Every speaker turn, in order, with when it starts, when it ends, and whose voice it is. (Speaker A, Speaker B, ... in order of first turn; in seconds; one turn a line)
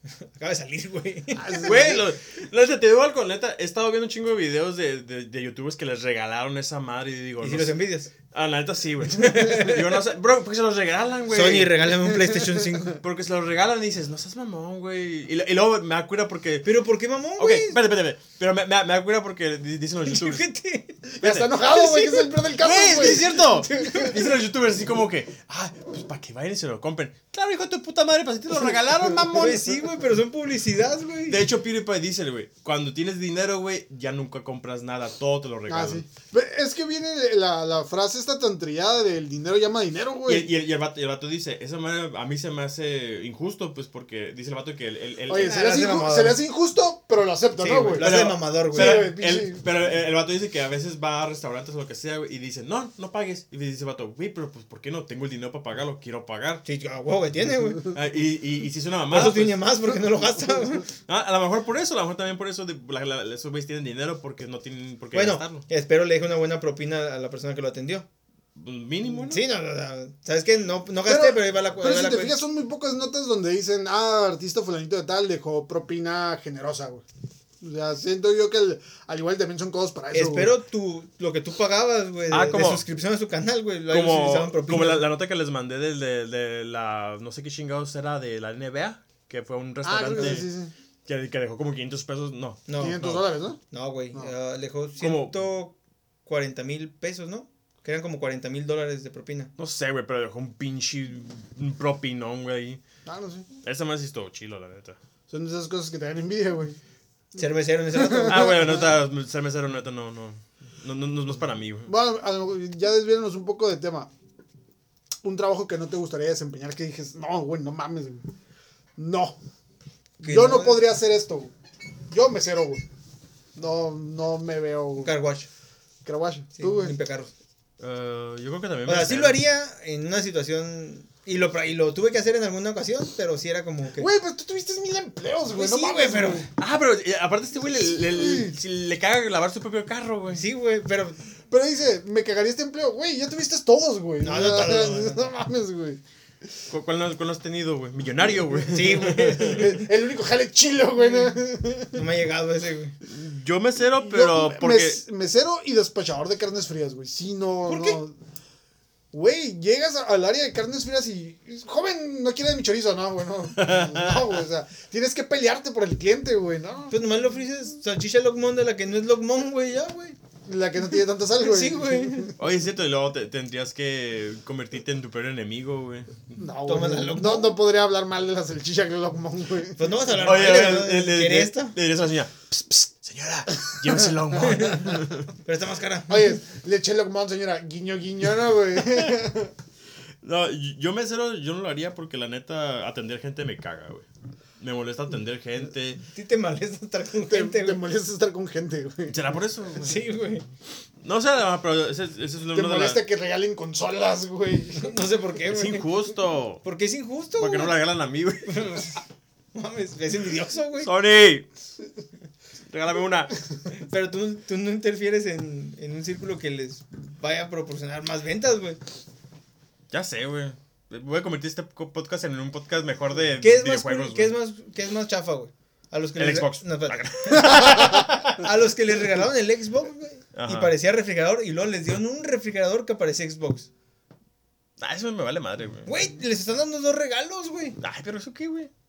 Speaker A: 0.2-1.8
Speaker B: 1.4-2.1
Speaker C: 1.6-7.8
Speaker A: 7.4-8.1
Speaker C: 8.3-12.2
Speaker A: 9.2-10.0
Speaker A: 11.3-13.0
Speaker C: 13.0-16.7
Speaker A: 16.6-17.8
Speaker C: 17.4-20.4
Speaker A: 20.1-21.1
Speaker B: 21.1-23.4
Speaker C: 21.2-21.5
Speaker A: 21.6-24.3
Speaker C: 22.6-29.7
Speaker A: 29.3-31.4
Speaker C: 31.3-36.0
Speaker B: 35.7-40.5
Speaker C: 40.3-45.5
Speaker B: 45.3-48.1
Speaker A: 45.3-46.4
Speaker A: 47.6-49.1
Speaker C: 48.0-56.6
Speaker B: 48.7-49.6
Speaker A: 56.6-57.9
Speaker C: 57.9-59.6
Speaker A: 59.1-60.9
Speaker C: 61.1-65.6
Speaker A: 65.1-68.1
Speaker C: 68.6-69.4
Speaker A: 69.2-72.4
Speaker B: 71.1-77.0
Speaker B: 77.6-80.5
Speaker A: 80.1-85.0
Speaker C: 82.3-82.8
Speaker C: 83.9-90.5
Speaker B: 89.8-90.7
Speaker C: 91.1-93.2
Speaker A: 92.7-93.2
Speaker B: 92.8-93.6
Speaker A: 93.7-99.5
Speaker C: 95.0-95.4
Speaker C: 99.6-102.8
Speaker B: 103.1-103.5
Speaker C: 103.6-105.0
Speaker B: 105.3-106.8
Speaker A: 107.4-108.6
Speaker B: 107.9-108.9
Speaker C: 108.2-111.9
Speaker B: 111.9-114.1
Speaker B: 115.2-118.3
Speaker B: 119.0-119.4
Speaker A: 120.2-120.8
Speaker B: 120.2-121.5
Speaker B: 122.1-122.8
Speaker B: 123.6-125.1
Speaker A: 125.0-125.5
Speaker B: 126.0-127.0
Speaker A: 126.6-127.3
Speaker C: 127.8-129.4
Speaker A: 128.9-134.1
Speaker B: 134.0-136.5
Speaker A: 135.5-136.5
Speaker C: 136.6-140.4
Speaker B: 138.0-138.6
Speaker A: 140.3-141.2
Speaker B: 141.5-146.0
Speaker A: 144.2-145.2
Speaker C: 146.7-149.7
Speaker A: 148.7-149.9
Speaker B: 149.4-152.0
Speaker A: 151.0-151.3
Speaker A: 151.9-152.9
Speaker C: 153.1-155.0
Speaker B: 154.0-158.2
Speaker A: 157.7-158.0
Speaker B: 159.1-167.0
Speaker C: 163.6-164.4
Speaker A: 166.9-170.2
Speaker B: 170.5-172.3
Speaker A: 171.4-172.3
Speaker C: 172.4-176.4
Speaker B: 176.4-179.9
Speaker A: 176.7-177.6
Speaker A: 179.8-181.8
Speaker C: 180.1-185.3
Speaker A: 184.4-186.4
Speaker B: 186.1-189.5
Speaker C: 190.2-194.1
Speaker C: 194.6-196.0
Speaker A: 196.1-197.8
Speaker B: 197.2-199.2
Speaker C: 199.1-200.2
Speaker A: 199.8-200.4
Speaker C: 201.0-203.0
Speaker B: 202.5-204.9
Speaker A: 204.8-205.9
Speaker C: 205.5-206.6
Speaker A: 206.6-207.8
Speaker C: 207.4-208.8
Speaker A: 208.4-209.0
Speaker A: 209.5-210.9
Speaker C: 210.8-211.5
Speaker C: 212.7-213.3
Speaker A: 213.7-218.8
Speaker C: 219.9-224.3
Speaker A: 223.4-233.7
Speaker C: 226.2-228.5
Speaker C: 230.3-230.7
Speaker C: 234.8-235.9
Speaker A: 235.9-237.8
Speaker C: 237.8-238.7